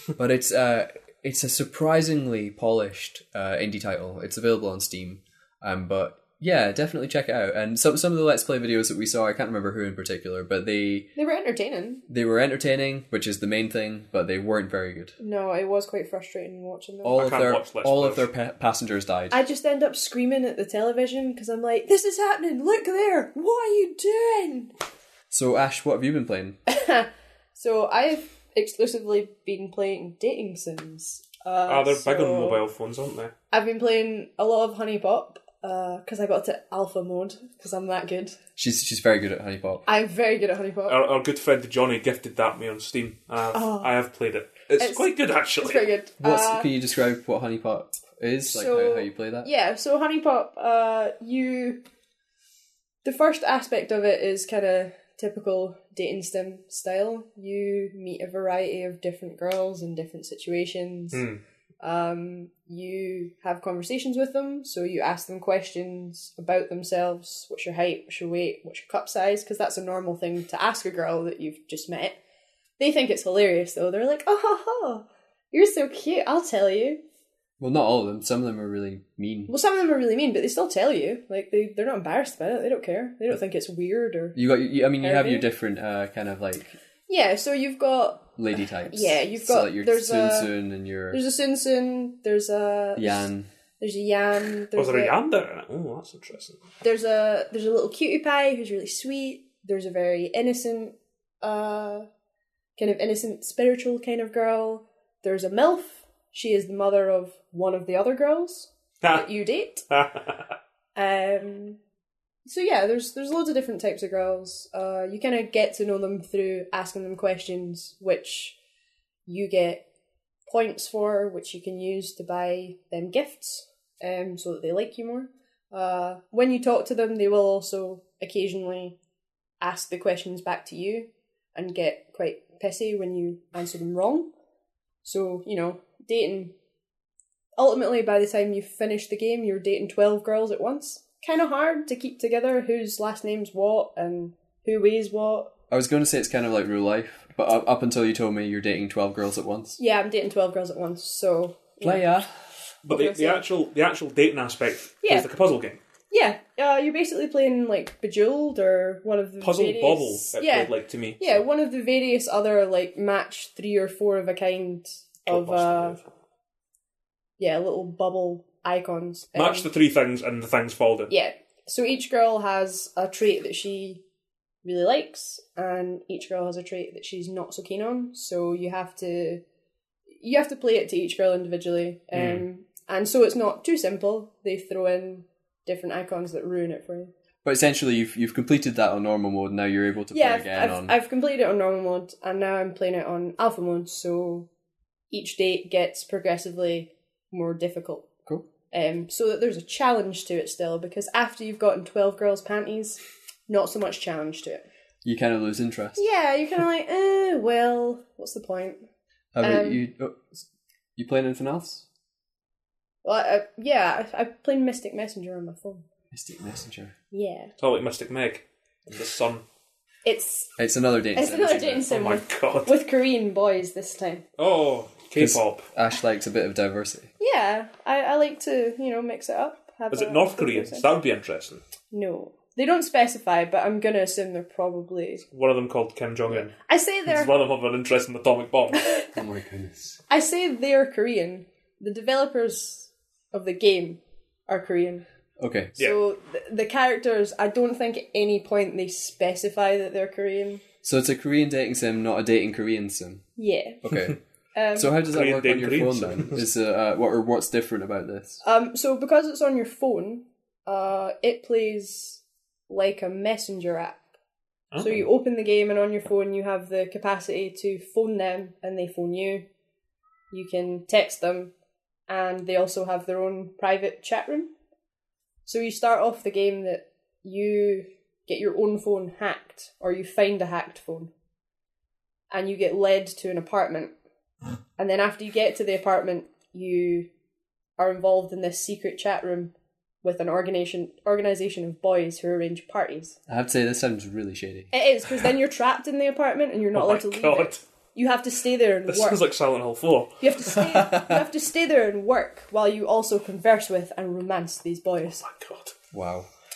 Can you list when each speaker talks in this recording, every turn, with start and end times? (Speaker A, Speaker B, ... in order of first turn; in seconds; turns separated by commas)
Speaker A: 0.1-11.1, Speaker B: 11.2-12.0, Speaker A: 12.1-15.1, Speaker B: 15.2-17.2, Speaker A: 17.0-19.4, Speaker C: 17.1-18.3, Speaker B: 19.3-24.7, Speaker A: 25.3-26.6, Speaker B: 26.7-32.6, Speaker C: 31.6-33.3, Speaker B: 33.5-38.4, Speaker A: 38.6-39.8, Speaker B: 39.9-41.0, Speaker C: 40.9-45.9, Speaker B: 43.5-44.0, Speaker B: 44.8-46.7, Speaker A: 46.2-49.5, Speaker B: 48.5-51.8, Speaker B: 53.0-61.2, Speaker C: 61.1-61.4, Speaker B: 61.8-72.2, Speaker B: 72.8-77.0, Speaker A: 77.6-79.5, Speaker B: 79.5-84.4, Speaker A: 84.3-86.8, Speaker B: 85.0-85.5, Speaker B: 87.1-88.3, Speaker A: 88.3-91.2, Speaker B: 88.9-90.5, Speaker B: 91.1-93.3, Speaker A: 93.0-93.5, Speaker B: 93.8-95.1, Speaker C: 94.7-96.6, Speaker B: 96.8-102.1, Speaker B: 102.8-109.8, Speaker C: 109.0-109.3, Speaker C: 109.9-110.4, Speaker B: 110.9-111.8, Speaker B: 112.5-118.5, Speaker B: 119.3-119.8, Speaker B: 120.5-128.9, Speaker B: 129.6-134.3, Speaker B: 135.0-136.5, Speaker B: 137.6-145.5, Speaker A: 145.7-149.8, Speaker B: 149.8-152.2, Speaker A: 151.8-152.3, Speaker C: 152.8-155.8, Speaker B: 152.8-153.4, Speaker B: 155.0-155.3, Speaker B: 156.1-166.0, Speaker C: 159.4-161.4, Speaker C: 165.2-166.0, Speaker B: 167.4-169.7, Speaker C: 169.3-171.1, Speaker B: 171.1-174.0, Speaker B: 174.6-179.4, Speaker B: 180.2-187.1, Speaker C: 182.1-182.4, Speaker A: 187.4-190.9, Speaker B: 190.1-194.5, Speaker B: 195.1-198.1, Speaker B: 198.7-204.6, Speaker A: 205.0-206.0, Speaker B: 206.0-208.8, Speaker A: 209.3-210.4, Speaker B: 209.4-209.8, Speaker A: 210.9-211.8, Speaker B: 213.0-215.8, Speaker A: 216.1-216.9, Speaker B: 217.1-217.5, Speaker C: 217.6-219.4, Speaker B: 220.0-220.5, Speaker A: 220.6-221.9, Speaker B: 221.1-224.2, Speaker C: 221.9-222.8, Speaker C: 224.4-225.7, Speaker A: 225.2-227.1, Speaker B: 227.2-230.9, Speaker C: 229.9-231.6, Speaker B: 231.9-235.2, Speaker C: 235.3-238.9, Speaker B: 236.7-237.3, Speaker B: 238.8-239.1, Speaker A: 239.1-240.0, Speaker B: 240.1-245.0, Speaker A: 245.4-245.7, Speaker B: 245.8-250.6, Speaker A: 250.8-253.2, Speaker B: 253.4-253.8, Speaker A: 253.8-254.2, Speaker B: 254.5-254.9, Speaker A: 254.7-258.4, Speaker C: 255.1-256.4, Speaker B: 258.4-264.0, Speaker C: 264.7-265.0, Speaker B: 264.8-269.4, Speaker B: 270.3-271.5, Speaker B: 272.1-274.5, Speaker B: 275.4-281.1, Speaker B: 282.3-283.9, Speaker B: 284.8-287.1, Speaker B: 287.8-293.2, Speaker A: 293.3-294.7, Speaker B: 294.7-299.2, Speaker C: 296.7-297.6, Speaker C: 298.9-300.3, Speaker B: 300.2-305.2, Speaker A: 300.7-301.2, Speaker C: 305.2-305.7, Speaker A: 305.9-306.3